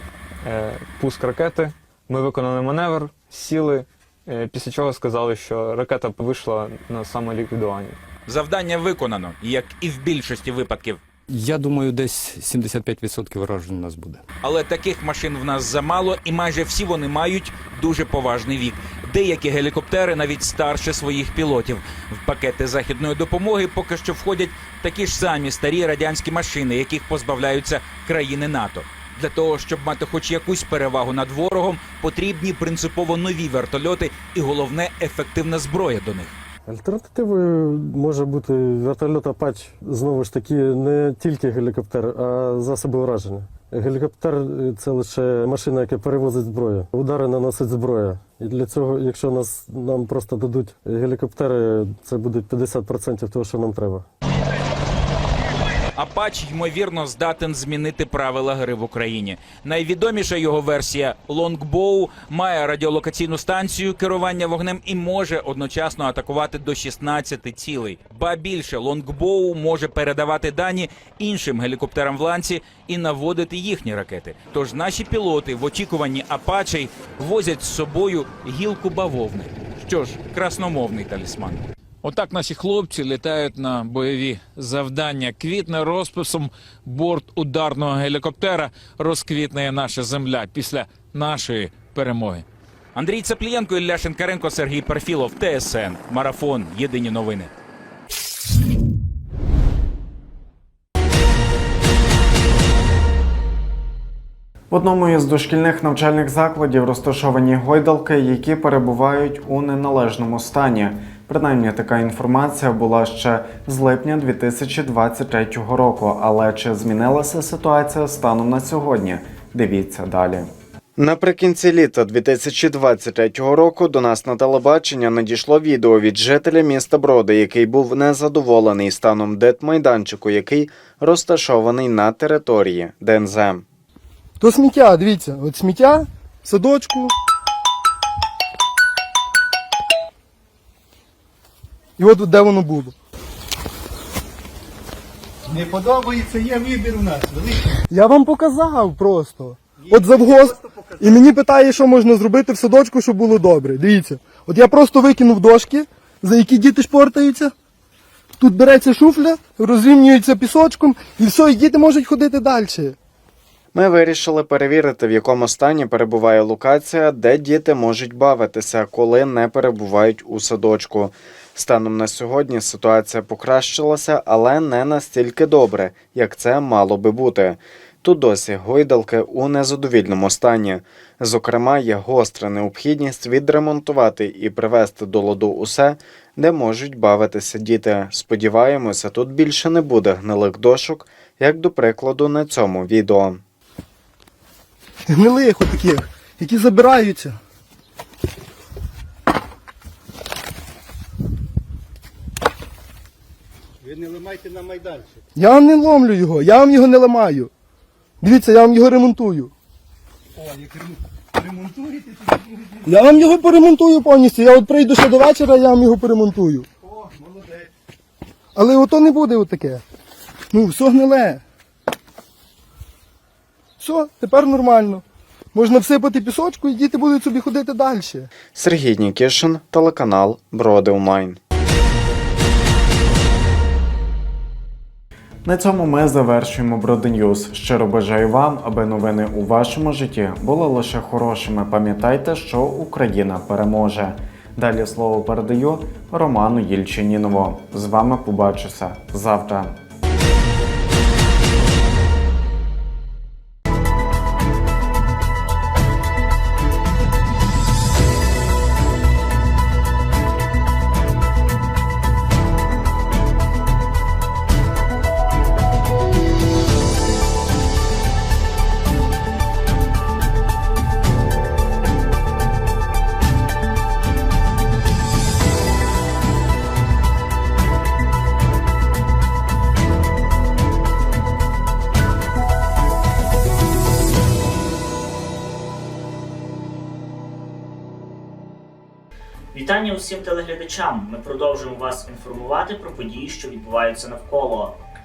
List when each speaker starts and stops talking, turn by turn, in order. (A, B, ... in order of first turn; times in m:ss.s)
0:00.4-0:08.0 A
0:08.3-0:11.0 B
0:11.3-0:14.2 C
0:14.4-0:36.4 B
0:36.7-0:54.1 D
0:56.0-1:37.5 B
1:44.7-2:13.6 E
2:14.4-2:17.1 F
2:22.0-2:22.9 F
2:25.5-2:27.6 G
2:27.9-2:37.5 F
2:38.4-2:43.0 F
2:43.7-3:13.4 E
3:15.1-3:17.4 F
3:23.8-3:25.0 G
3:25.3-3:27.5 F
3:28.2-3:29.5 F
3:31.4-3:32.0 G
3:32.8-3:36.7 F
3:38.5-3:39.8 F
3:40.5-3:41.4 F
3:43.8-3:48.3 F
3:48.5-3:51.4 E
3:55.4-4:09.8 E
4:49.5-4:54.8 H